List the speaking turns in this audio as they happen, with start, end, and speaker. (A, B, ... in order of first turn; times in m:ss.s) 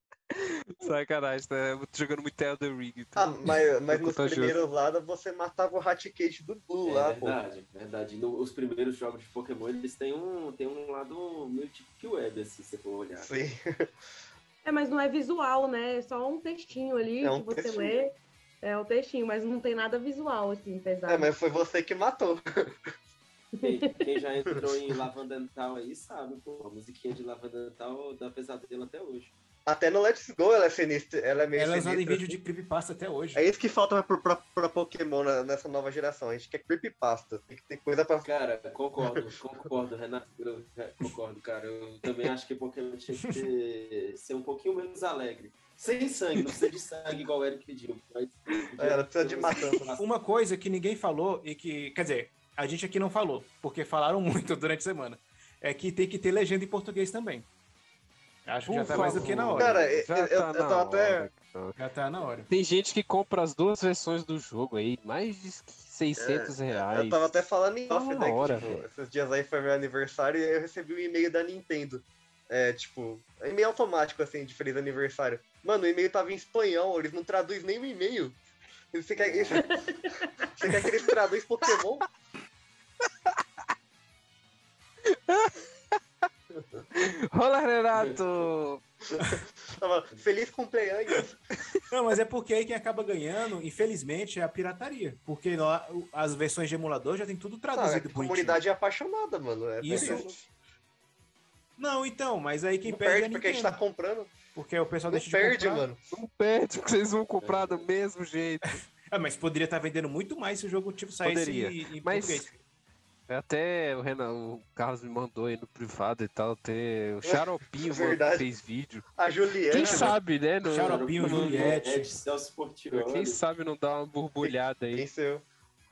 0:00.3-0:04.6 A
0:03.2-0:07.4 B
0:06.8-0:13.3 C
0:13.2-0:13.9 B
0:14.6-0:21.3 D
0:17.2-0:17.9 B
0:21.1-0:22.4 B
0:23.6-0:29.3 C
0:29.6-0:32.3 B
0:31.5-0:33.4 E
0:33.3-0:38.3 B
0:38.2-0:50.0 C
0:43.1-0:43.4 E
0:48.8-0:49.9 B
0:50.0-0:57.5 E
0:58.4-0:59.8 E
0:58.7-1:01.8 A
0:58.9-1:01.3 B
0:58.9-0:59.3 C
1:01.8-1:02.5 E
1:02.5-1:07.3 A
1:06.2-1:18.4 B
1:07.9-1:08.8 A
1:18.9-1:19.6 B
1:19.2-1:19.6 C
1:19.6-1:20.3 D
1:20.6-1:22.0 B
1:25.1-1:26.0 A
1:26.6-1:26.8 B
1:26.9-1:28.8 A
1:29.2-1:31.3 B
1:31.6-1:31.8 A
1:31.9-1:38.6 E
1:37.7-1:40.4 B
1:39.8-1:40.3 E
1:39.9-1:40.3 C
1:41.8-1:43.8 E
1:42.8-1:44.3 B
1:44.5-1:45.9 E
1:45.1-1:46.0 B
1:46.1-1:48.8 A
1:47.4-1:47.9 C
1:48.6-1:52.6 E
1:51.2-1:52.5 A
1:53.3-1:59.1 A
1:57.2-1:58.5 B
1:59.2-2:00.1 B
1:59.7-2:01.8 A
1:59.7-2:02.2 E
2:00.8-2:03.4 C
2:02.9-2:05.1 A
2:04.4-2:05.4 B